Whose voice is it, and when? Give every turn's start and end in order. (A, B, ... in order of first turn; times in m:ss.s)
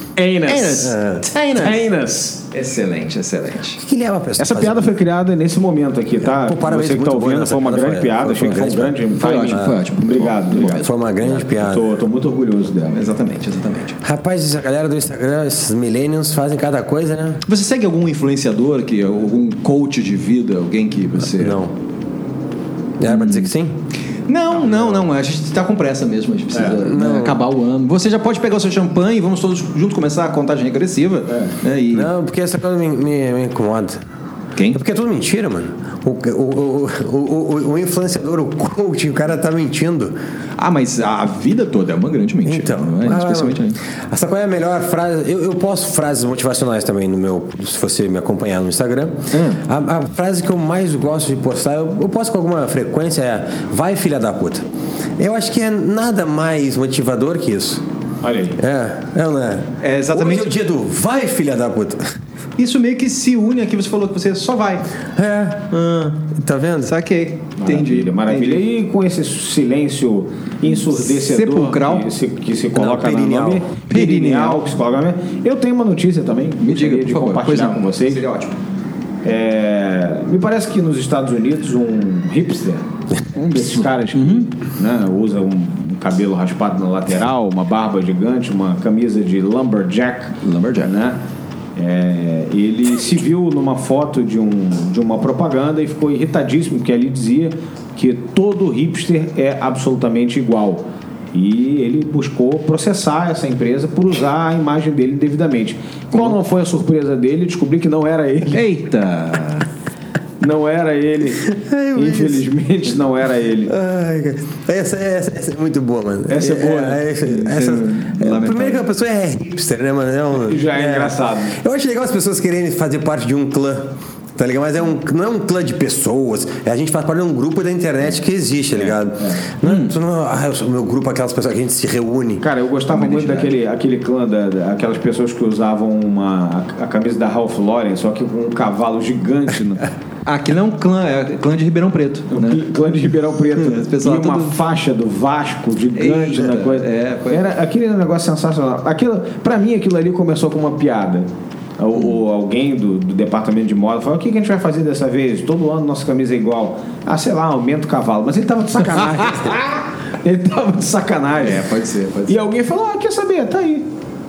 0:00.2-0:00.9 A
0:00.5-0:01.8 B
0:00.8-0:01.3 C
0:01.6-0:02.4 A
0:02.5-0:03.8 B
0:03.8-0:04.9 C
0:04.4-0:13.0 A
0:06.2-0:09.0 C
0:09.2-0:10.9 B
0:10.7-0:11.9 C
0:12.9-0:14.0 B
0:14.0-0:17.4 C
0:17.5-0:21.6 B
0:21.4-0:21.7 C
0:23.0-0:23.8 C
0:23.0-0:23.5 B
0:24.3-0:32.1 B
0:26.5-0:26.8 A
0:26.8-0:27.4 C
0:31.3-0:31.6 A
0:31.9-0:34.0 C
0:34.7-0:40.2 C
0:40.6-0:43.8 B
0:42.5-0:54.7 C
0:49.3-0:49.6 B
0:55.2-0:57.8 C
0:58.2-0:58.6 A
0:58.6-1:02.1 C
0:59.8-1:00.6 B
1:02.6-1:04.9 B
1:05.2-1:05.7 C
1:05.7-1:06.2 B
1:06.3-1:06.9 C
1:06.9-1:08.6 B
1:07.6-1:18.2 A
1:10.9-1:12.1 B
1:12.8-1:13.6 C
1:13.9-1:14.6 B
1:16.6-1:18.6 B
1:19.2-1:31.2 A
1:24.1-1:24.5 B
1:30.4-1:30.9 B
1:31.8-1:48.6 A
1:48.5-1:49.7 B
1:50.4-1:53.7 A
1:51.4-1:52.4 C
1:53.7-2:12.4 C
1:56.3-1:58.8 B
2:00.4-2:01.6 A
2:08.7-2:09.4 A
2:09.6-2:09.9 B
2:12.4-2:19.8 A
2:12.9-2:13.5 B
2:20.2-2:22.6 B
2:22.3-2:31.3 A
2:23.5-2:24.6 B
2:26.0-2:27.5 B
2:31.8-2:41.6 A
2:41.4-2:42.4 B
2:42.3-2:43.9 A